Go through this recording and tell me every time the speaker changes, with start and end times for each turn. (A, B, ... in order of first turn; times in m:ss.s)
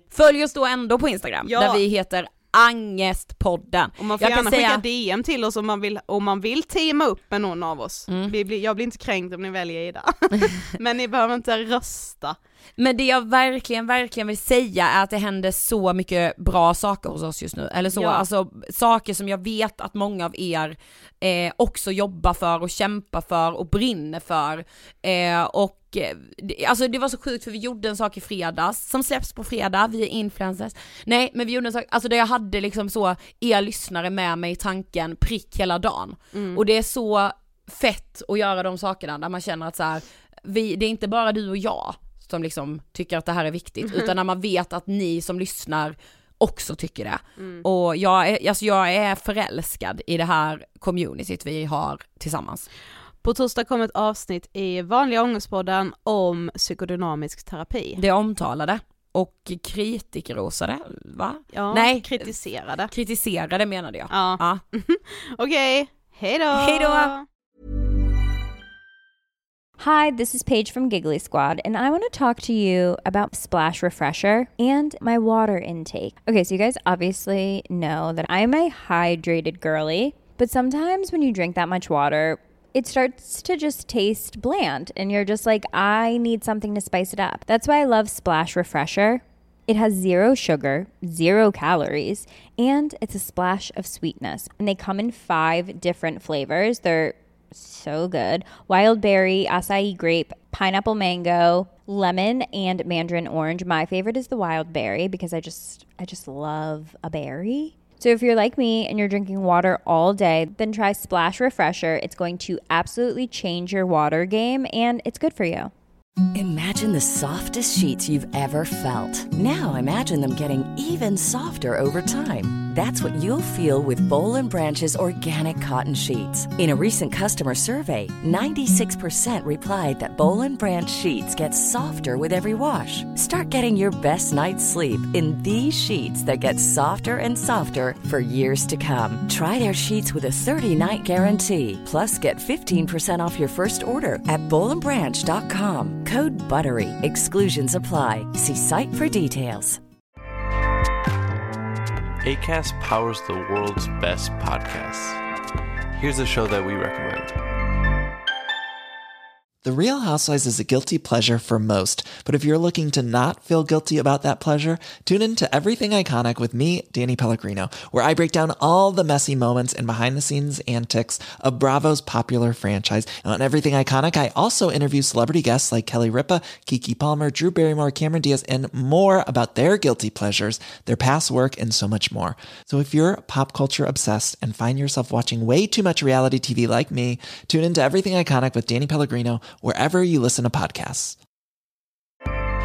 0:00.1-0:04.8 A
0:01.4-0:01.8 B
0:04.0-0:12.4 B
0:08.1-0:08.3 A
0:12.8-0:52.7 A
0:17.9-0:18.2 B
0:36.3-0:36.6 B
0:47.4-0:47.6 B
0:53.2-0:58.0 B
0:58.0-1:02.4 A
1:01.5-1:02.9 B
1:02.9-1:04.6 A
1:04.1-1:07.2 B
1:06.5-1:07.1 A
1:09.8-1:55.7 C
1:56.3-2:29.8 D
2:32.2-2:35.2 E
2:35.9-2:37.4 E
2:39.6-3:11.2 F